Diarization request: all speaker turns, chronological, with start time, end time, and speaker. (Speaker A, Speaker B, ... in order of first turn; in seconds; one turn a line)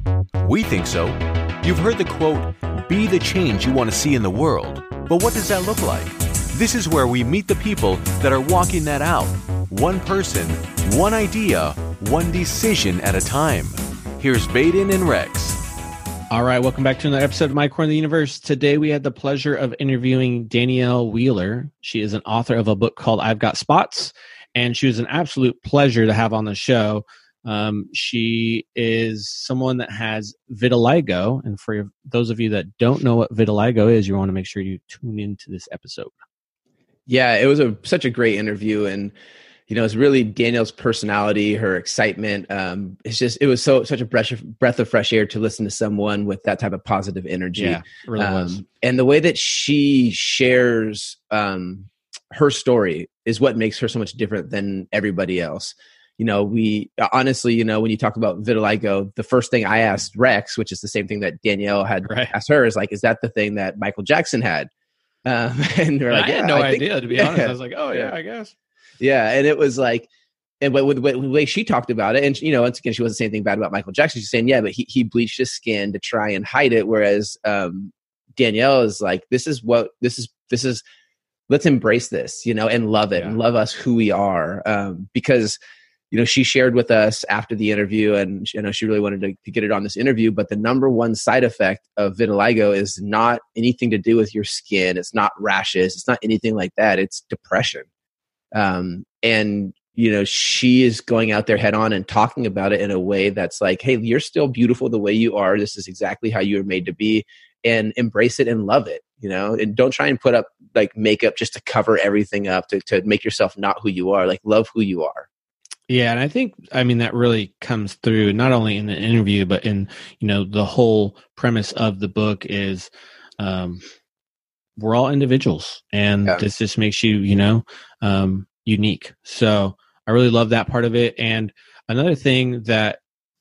Speaker A: 0.4-15.6
Speaker B: 16.3-36.1
Speaker C: 37.1-39.1
Speaker C: 39.7-64.7
Speaker B: 47.5-48.6
Speaker B: 62.0-62.3
Speaker C: 65.2-68.1
Speaker B: 66.1-68.5
Speaker C: 69.0-70.1
Speaker C: 70.6-80.8
Speaker C: 81.5-85.5
Speaker C: 86.1-97.8
Speaker C: 98.5-115.3
Speaker B: 115.9-123.8
Speaker B: 124.8-133.0